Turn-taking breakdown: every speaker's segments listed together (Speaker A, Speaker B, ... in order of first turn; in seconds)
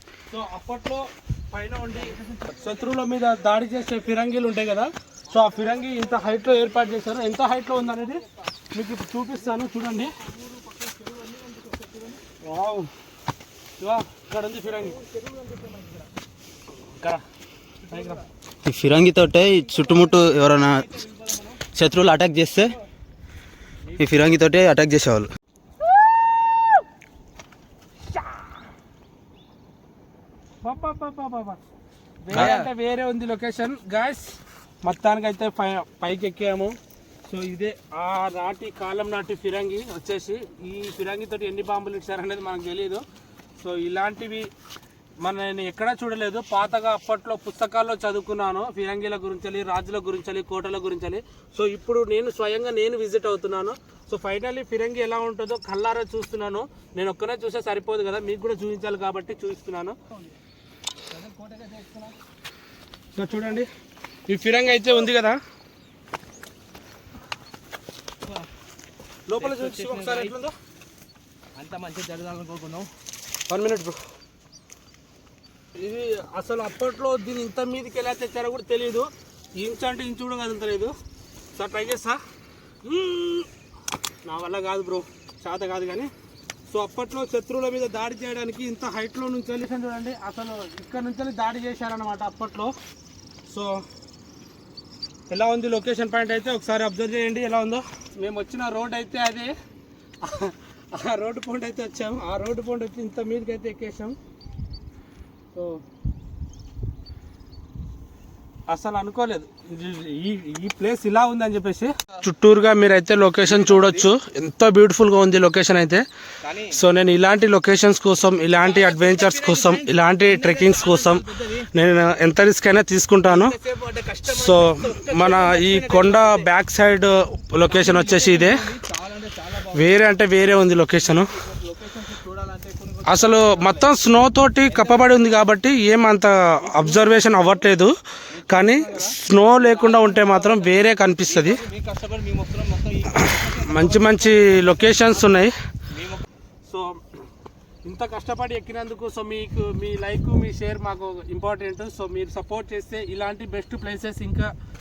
Speaker A: 0.3-10.1, 12.4-12.9, 13.8-15.0, 17.9-18.2, 30.6-31.6, 32.2-43.0, 43.6-44.5, 45.2-60.1, 63.1-63.7, 64.3-65.4, 69.3-70.5, 73.5-74.0, 75.8-80.9, 81.5-82.2, 82.8-83.5, 84.2-86.1, 86.7-92.7, 93.5-93.9, 95.3-99.5, 100.2-104.2, 105.5-105.8, 108.7-116.0, 116.7-123.5, 124.3-128.6, 129.7-131.3, 133.1-137.9, 138.5-141.6, 143.2-145.6, 146.7-147.0, 147.8-154.5
Speaker B: 2.0-2.3, 10.3-12.2, 15.0-16.0, 19.8-20.2, 20.8-21.6, 32.3-32.7, 61.1-62.1, 69.4-70.4, 71.5-72.9, 113.4-114.1, 116.4-116.8, 118.6-121.7, 123.2-126.5, 127.7-130.0, 131.0-133.9, 134.7-135.2, 136.6-137.5, 138.3-145.4, 145.9-146.2
Speaker C: 18.6-20.9, 21.7-22.8, 24.0-25.3